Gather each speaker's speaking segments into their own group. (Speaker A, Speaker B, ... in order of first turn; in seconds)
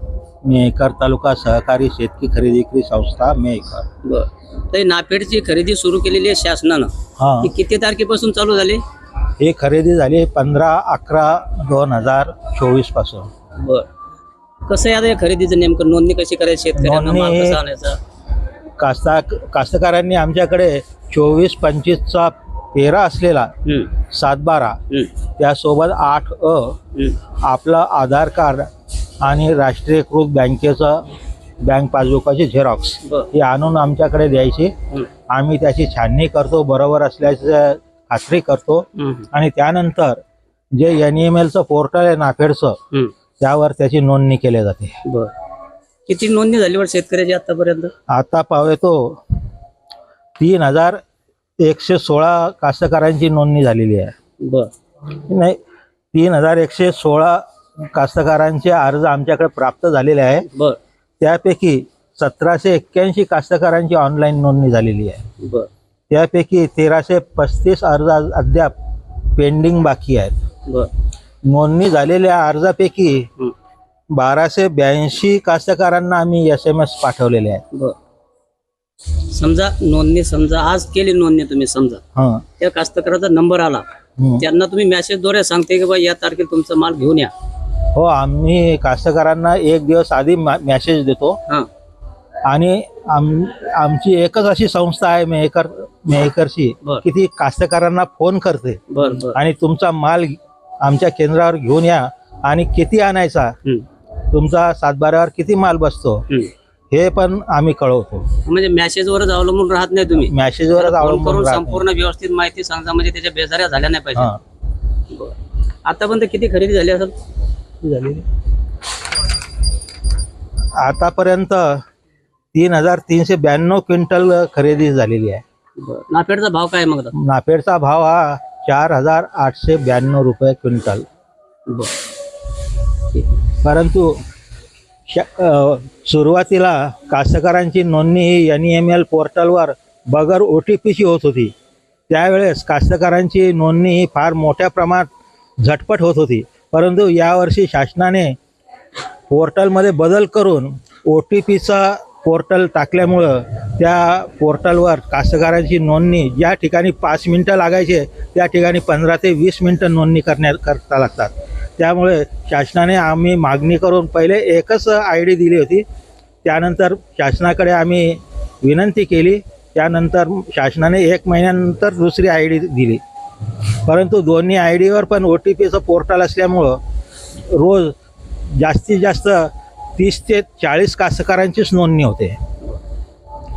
Speaker A: 0.4-3.9, 7.2-7.5, 9.4-13.3, 16.8-17.6, 18.8-23.5, 24.1-24.8, 25.4-26.8, 27.4-28.7, 29.2-31.1, 31.6-34.7, 35.3-40.2, 40.7-42.8, 43.4-45.0, 48.1-49.2, 50.4-51.0, 51.6-54.1, 55.2-55.6, 56.1-60.5, 61.2-65.2, 66.1-68.8, 69.4-70.4, 71.5-73.3, 74.1-77.6, 82.2-82.4, 84.2-84.4, 87.9-91.4, 92.5-103.5, 104.3-106.2, 106.9-108.3, 110.3-111.8, 117.8-118.2, 120.8-121.8, 122.5-125.4, 127.2-131.1, 133.6-134.2, 135.1-141.5, 142.1-145.1, 145.6-148.4, 149.3-165.8, 166.4-173.0, 173.9-176.8, 177.5-177.9, 178.6-182.4
Speaker B: 4.0-6.9, 7.4-8.8, 13.6-13.9, 14.7-18.0, 23.6-23.9, 33.0-33.3, 39.0-39.3, 45.0-45.3, 46.1-47.9, 54.4-54.7, 60.5-60.8, 65.4-65.7, 79.3-82.0, 82.6-83.8, 84.4-87.3, 98.9-99.4, 108.5-114.3, 115.1-117.1, 125.8-127.1